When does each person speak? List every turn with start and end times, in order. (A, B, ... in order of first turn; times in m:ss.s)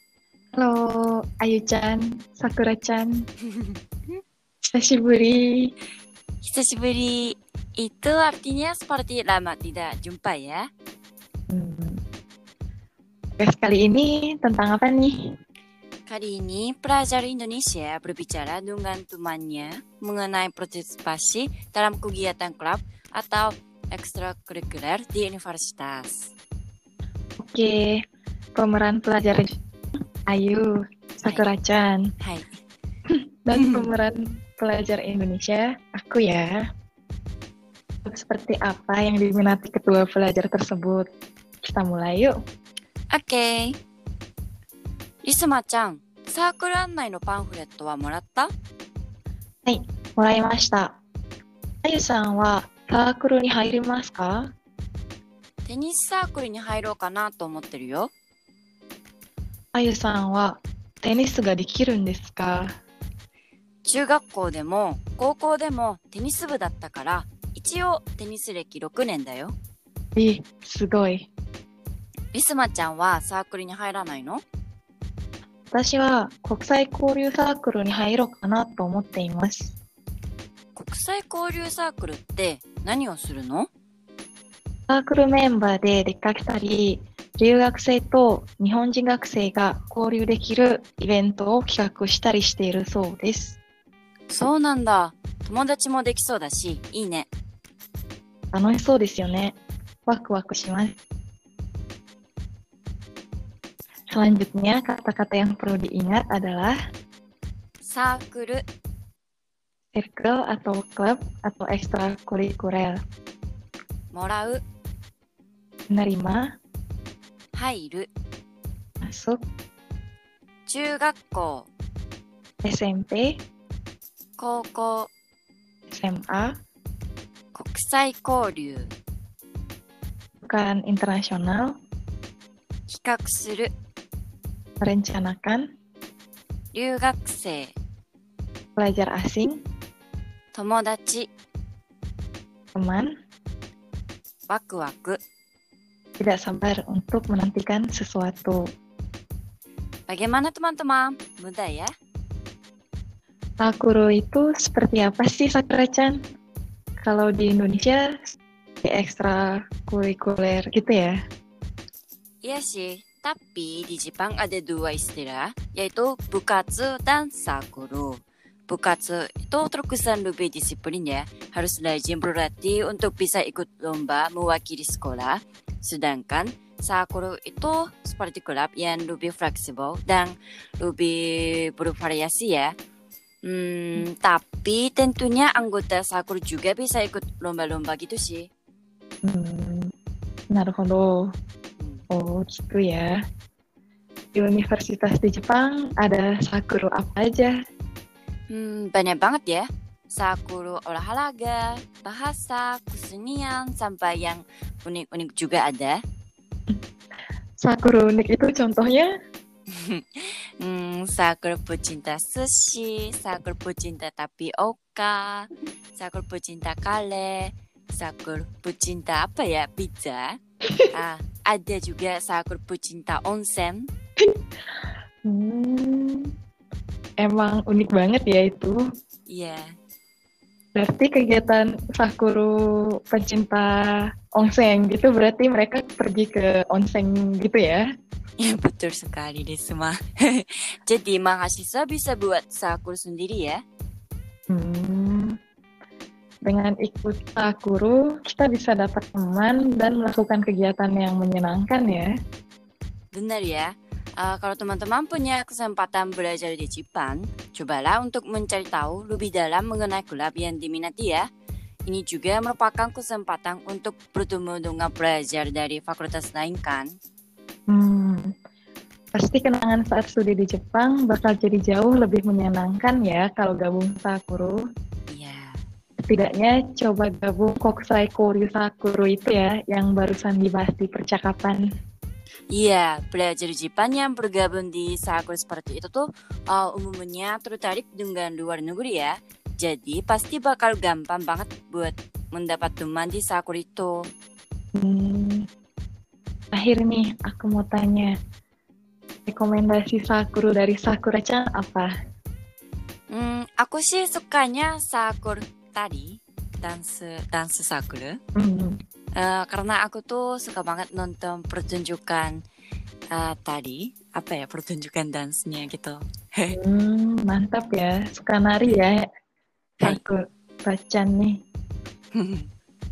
0:00.6-0:03.3 A
0:04.6-0:05.7 A
0:06.4-0:10.7 B
0:11.5-0:12.0 A
0:13.4-0:15.4 A
0:16.1-0:26.3 B
0:27.4-0:28.0 A
0:28.6-0:29.6 A
0:30.3-0:32.0 A
0:32.2-0:32.5 B
0:33.4-0:36.6 A
0:33.5-0:33.9 B
0:38.0-0:41.0 A
0:41.6-0:42.4 A
0:43.1-0:43.8 B
0:45.2-0:48.5 B
0:49.6-0:51.0 A
0:51.8-0:54.5 A
0:55.6-0:58.1 B
0:59.7-1:02.8 A
1:03.8-1:09.5 B
1:10.2-1:11.3 A
1:12.3-1:14.4 B
1:15.7-1:19.7 A
1:20.7-1:23.7 B
1:24.9-1:33.6 A
1:34.3-1:37.3 B
1:38.5-1:39.5 A
1:40.1-1:41.0 A
1:44.1-1:46.8 A
1:47.8-1:48.6 B
1:49.9-1:53.0 A
1:54.1-1:54.6 B
1:55.9-1:56.5 A
1:57.5-1:58.1 B
1:59.0-1:59.4 A
2:00.7-2:01.7 B
2:02.6-2:03.4 A
2:04.4-2:05.1 B
2:05.9-2:06.5 A
2:07.5-2:08.9 B
2:10.4-2:11.7 A
2:12.9-2:13.7 B
2:14.8-2:15.6 A
2:16.7-2:17.7 B
2:18.8-2:19.6 A
2:20.5-2:21.3 B
2:22.7-2:23.1 A
2:24.5-2:25.2 B
2:26.2-2:28.6 A
2:30.1-2:31.9 B
2:33.6-2:36.2 A
2:37.0-2:41.2 A
2:42.4-3:02.7 B
3:03.4-3:08.5 B
3:09.2-3:09.9 A
3:10.5-3:11.2 A
3:12.1-3:13.1 A
3:14.3-3:17.5 A
3:18.5-3:26.0 B
3:27.6-3:29.1 A
3:29.7-3:40.4 B
3:40.9-3:43.9 B
3:45.2-3:46.3 A
3:47.2-3:48.8 A
3:49.3-3:49.7 B
3:50.7-3:57.8 A
3:58.4-4:03.6 B
4:04.5-4:05.3 A
4:06.4-4:12.1 A
4:13.1-4:21.2 B
4:21.9-4:26.9 B
4:27.7-4:28.3 A
4:29.1-4:34.6 A
4:35.1-4:35.6 B
4:36.0-4:41.6 A
4:42.5-4:54.0 B
4:54.8-4:55.4 A
4:56.5-4:58.1 A
4:59.3-5:01.9 A
5:03.1-5:08.2 B
5:08.4-5:08.8 A
5:09.2-5:12.4 B
5:13.1-5:16.6 B
5:16.5-5:19.0 A
5:19.8-5:21.4 A
5:22.1-5:22.5 B